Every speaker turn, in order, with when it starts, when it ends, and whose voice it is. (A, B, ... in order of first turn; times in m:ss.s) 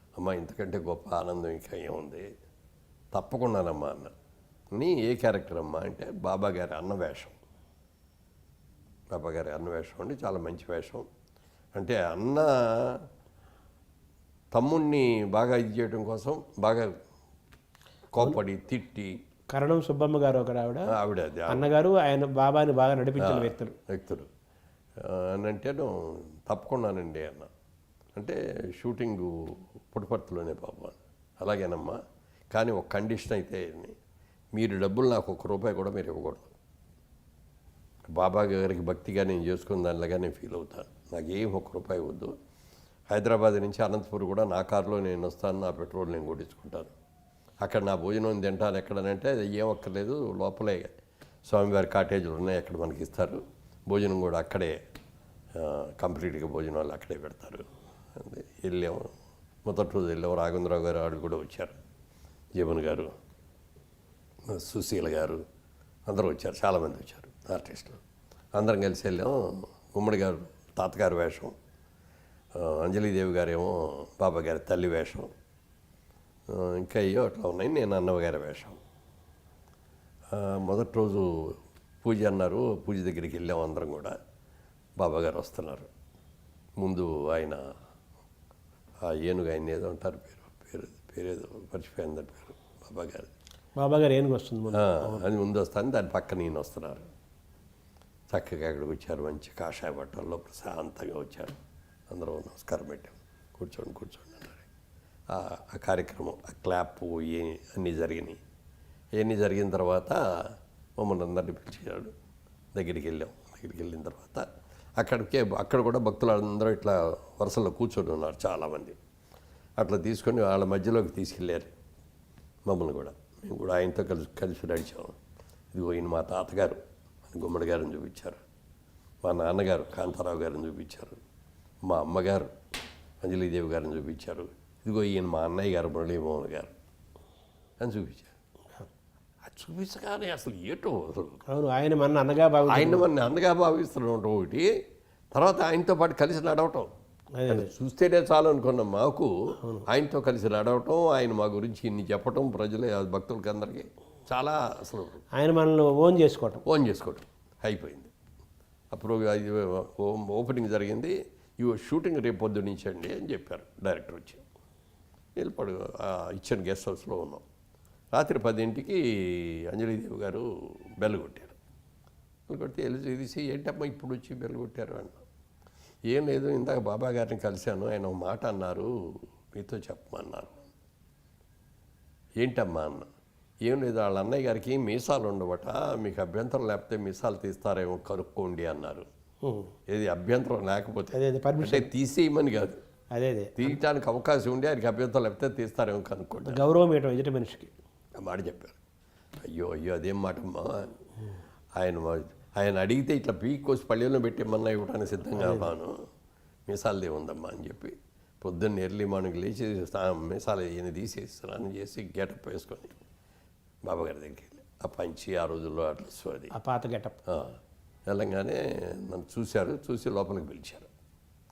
0:00.2-0:02.2 A
0:03.1-0:04.1 A
0:04.8-0:07.4 A
0:09.1-0:11.0 A
0:11.7-0:13.0 A
0:14.5-0:16.9 A
0:18.1-0:19.1 A
0:19.5-0:20.9 B
0:20.9-0:21.6 A
0:21.5-0:23.7 B
0:23.2-0:24.3 A
0:25.0-0:25.9 A
0:26.5-0:27.5 A
0:28.2-0:32.0 A
0:32.5-0:33.9 A
0:34.6-0:36.5 A
0:38.1-0:42.3 A
0:43.1-0:46.9 A
0:47.6-0:50.9 A
0:51.4-0:54.8 A
0:55.6-0:59.1 A
0:59.6-1:01.7 A
1:02.6-1:03.1 A
1:04.5-1:05.4 A
1:06.1-1:08.0 A
1:08.5-1:09.4 A
1:09.9-1:11.5 A
1:12.6-1:15.3 A
1:16.5-1:18.8 A
1:20.3-1:24.1 A
1:25.0-1:25.9 A
1:26.8-1:27.6 A
1:29.1-1:33.3 A
1:33.8-1:35.2 B
1:34.7-1:37.1 A
1:38.3-1:41.6 A
1:42.1-1:44.6 A
1:45.3-1:48.4 A
1:49.2-1:52.1 A
1:52.7-1:54.4 A
1:55.0-1:59.0 A
1:59.8-2:01.7 A
2:02.7-2:05.2 A
2:05.7-2:08.4 A
2:09.2-2:11.2 A
2:11.9-2:12.5 A
2:13.2-2:16.7 A
2:17.8-2:18.3 A
2:19.4-2:21.4 A
2:21.5-2:23.1 B
2:22.7-2:24.7 A
2:25.3-2:26.9 A
2:27.4-2:27.7 B
2:27.4-2:29.3 A
2:29.9-2:35.2 A
2:35.4-2:36.6 B
2:36.6-2:38.1 A
2:38.9-2:44.4 A
2:45.4-2:47.4 A
2:48.1-2:50.4 A
2:51.0-2:51.6 A
2:52.5-2:55.2 A
2:56.1-2:58.9 A
2:59.6-3:00.7 A
3:02.4-3:03.0 A
3:03.6-3:09.0 A
3:09.4-3:09.7 B
3:09.9-3:12.8 A
3:11.1-3:11.9 B
3:13.1-3:13.7 B
3:13.6-3:16.7 A
3:16.5-3:17.7 B
3:18.2-3:18.8 A
3:19.4-3:20.9 A
3:21.8-3:25.9 A
3:25.4-3:25.7 B
3:26.7-3:33.0 A
3:33.9-3:36.5 A
3:36.5-3:37.2 B
3:37.3-3:37.6 A
3:38.1-3:40.9 A